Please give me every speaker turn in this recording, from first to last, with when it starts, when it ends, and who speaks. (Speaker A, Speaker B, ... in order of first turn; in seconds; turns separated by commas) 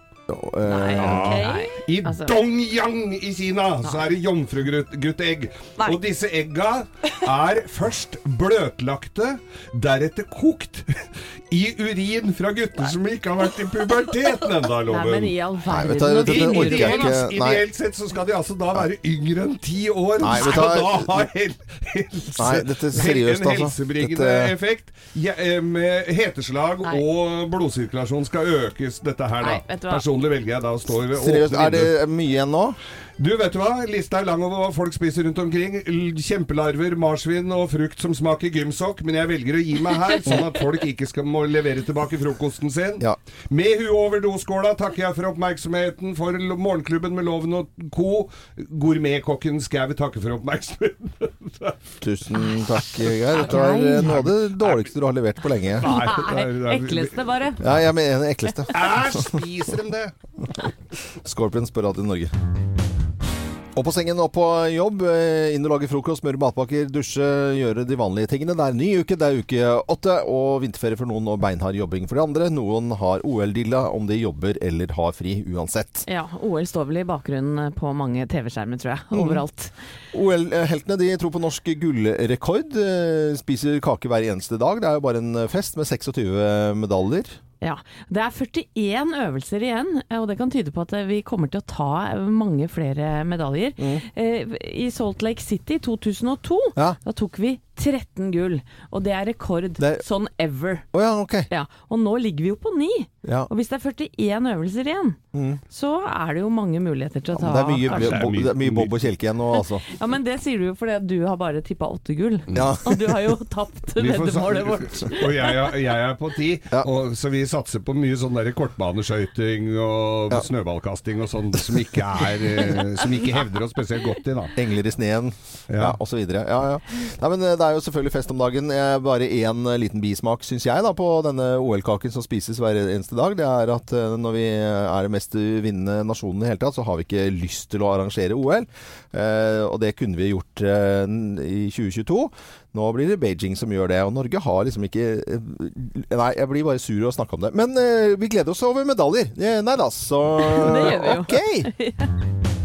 Speaker A: 0.3-1.4, Speaker B: 0.7-2.4, Speaker C: 1.0-10.9, Speaker C: 11.5-15.3, Speaker B: 14.9-17.2, Speaker A: 15.7-17.6, Speaker C: 16.2-31.9, Speaker A: 20.2-21.3, Speaker A: 22.4-24.5, Speaker B: 29.4-30.1, Speaker A: 31.1-32.8, Speaker C: 33.2-51.8, Speaker A: 52.0-55.9, Speaker B: 53.4-54.1, Speaker C: 54.0-55.0, Speaker C: 55.8-57.8, Speaker B: 55.8-57.6, Speaker A: 57.6-59.4, Speaker C: 58.7-60.1, Speaker A: 61.2-62.3, Speaker A: 63.7-76.0, Speaker B: 76.1-79.7, Speaker A: 79.1-79.4, Speaker A: 80.1-87.4, Speaker B: 87.6-100.8, Speaker A: 93.8-94.0, Speaker A: 99.8-100.0, Speaker A: 100.9-101.5, Speaker B: 101.5-105.2, Speaker A: 103.2-103.5, Speaker A: 105.3-105.6, Speaker B: 105.7-108.1, Speaker A: 107.3-109.9, Speaker C: 107.9-108.9, Speaker B: 109.9-115.5, Speaker A: 112.5-113.2, Speaker C: 114.0-124.5, Speaker A: 124.6-151.7, Speaker C: 125.7-126.0, Speaker B: 150.4-152.1